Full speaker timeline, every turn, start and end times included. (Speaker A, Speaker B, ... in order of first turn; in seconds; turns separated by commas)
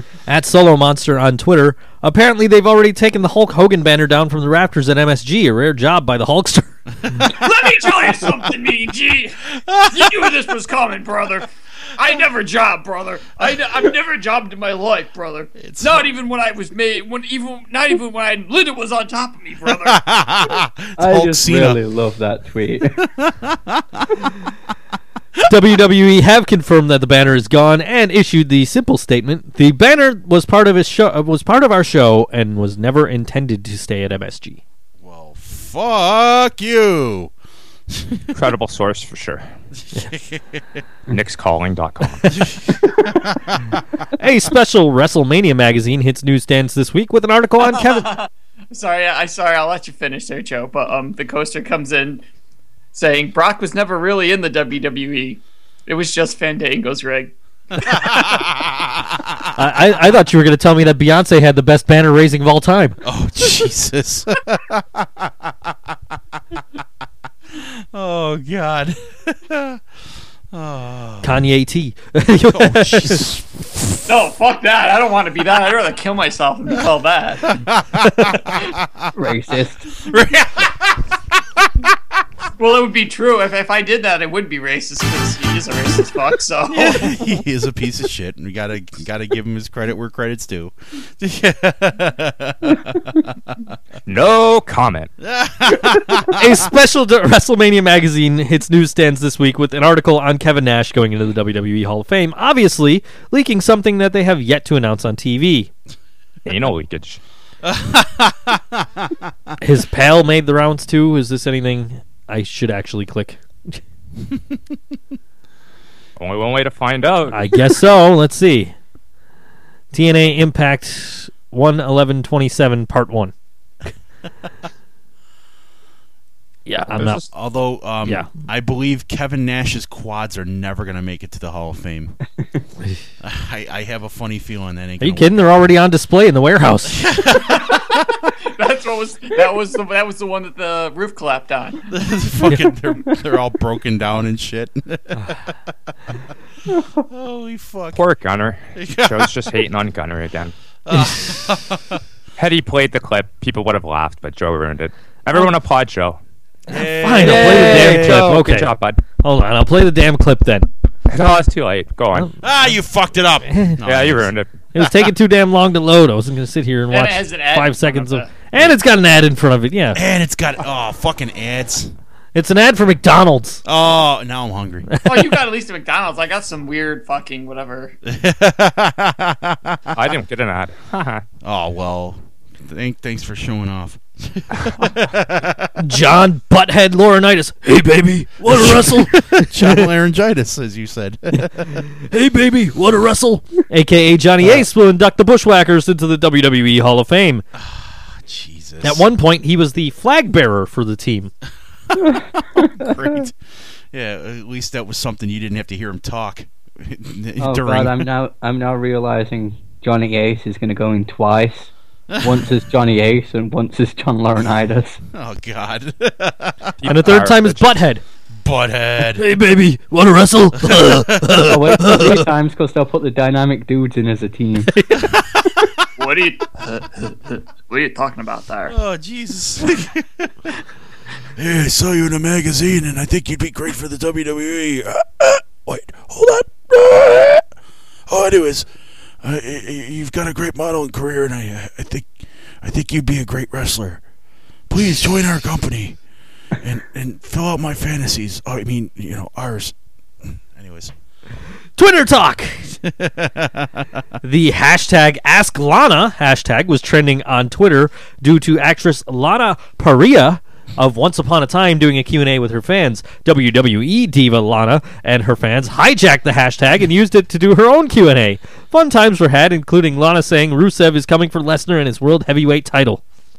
Speaker A: 0.3-6.8, Speaker B: 7.1-7.5, Speaker C: 7.2-20.0, Speaker B: 9.6-10.3, Speaker B: 15.6-16.1, Speaker B: 19.7-21.8, Speaker D: 21.0-23.0, Speaker B: 23.2-24.2, Speaker A: 25.4-34.6, Speaker B: 35.0-37.3, Speaker B: 37.9-38.3, Speaker E: 38.3-39.4, Speaker B: 39.9-40.8, Speaker E: 41.1-42.4, Speaker B: 42.3-43.8, Speaker A: 44.1-48.2, Speaker C: 47.7-52.2, Speaker C: 52.9-58.2, Speaker B: 57.7-59.5, Speaker A: 59.5-63.0, Speaker B: 63.0-65.7, Speaker B: 67.5-69.8, Speaker B: 70.5-71.3, Speaker A: 71.2-73.2, Speaker B: 72.5-74.0, Speaker C: 74.1-77.6, Speaker B: 77.5-79.1, Speaker D: 79.1-79.9, Speaker B: 80.0-81.1, Speaker B: 81.6-81.9, Speaker C: 82.6-87.1, Speaker B: 86.7-93.5, Speaker E: 94.0-95.1, Speaker B: 95.2-96.6, Speaker A: 96.2-105.7, Speaker E: 106.4-107.2, Speaker B: 107.6-109.1, Speaker A: 109.6-113.8, Speaker E: 116.2-117.6, Speaker A: 117.3-118.7, Speaker A: 119.9-123.3, Speaker A: 126.7-127.2, Speaker E: 126.9-127.2, Speaker B: 127.3-132.2, Speaker B: 133.2-135.5, Speaker A: 135.0-137.0, Speaker B: 136.9-138.3, Speaker C: 137.4-137.8, Speaker C: 138.4-141.9, Speaker B: 141.9-145.4, Speaker B: 146.9-148.0, Speaker E: 147.9-150.5, Speaker B: 148.8-149.3, Speaker B: 150.8-152.0, Speaker A: 150.9-151.4, Speaker E: 152.4-156.2, Speaker B: 156.7-158.2, Speaker A: 156.8-160.7, Speaker E: 157.2-159.0, Speaker E: 161.1-162.3, Speaker B: 162.4-164.3, Speaker A: 163.5-163.8, Speaker E: 163.8-164.5, Speaker A: 164.7-170.0, Speaker C: 166.9-168.3, Speaker B: 169.9-171.9, Speaker A: 172.3-173.6, Speaker B: 173.6-175.0, Speaker A: 174.9-175.3, Speaker C: 175.0-177.9, Speaker B: 178.0-179.9, Speaker E: 179.9-181.2, Speaker B: 181.4-185.7, Speaker A: 185.8-189.9, Speaker B: 188.5-191.8, Speaker A: 191.4-197.4, Speaker B: 197.6-199.0, Speaker A: 198.8-201.3, Speaker B: 201.9-203.4, Speaker D: 202.0-203.1, Speaker B: 203.9-208.1, Speaker D: 207.4-215.0, Speaker B: 212.1-212.4, Speaker B: 215.1-216.7, Speaker E: 216.8-217.7, Speaker A: 216.8-218.0, Speaker B: 218.4-219.2, Speaker A: 219.1-222.3, Speaker B: 220.6-221.6, Speaker D: 221.4-224.7, Speaker A: 224.7-225.1, Speaker B: 224.9-225.9, Speaker C: 226.0-228.7, Speaker B: 228.7-230.5, Speaker B: 231.3-237.4, Speaker B: 238.1-238.7, Speaker B: 239.2-244.0, Speaker B: 244.7-246.0, Speaker B: 246.6-249.7, Speaker B: 250.5-250.9, Speaker A: 251.8-252.7, Speaker B: 252.9-253.8, Speaker A: 254.2-273.0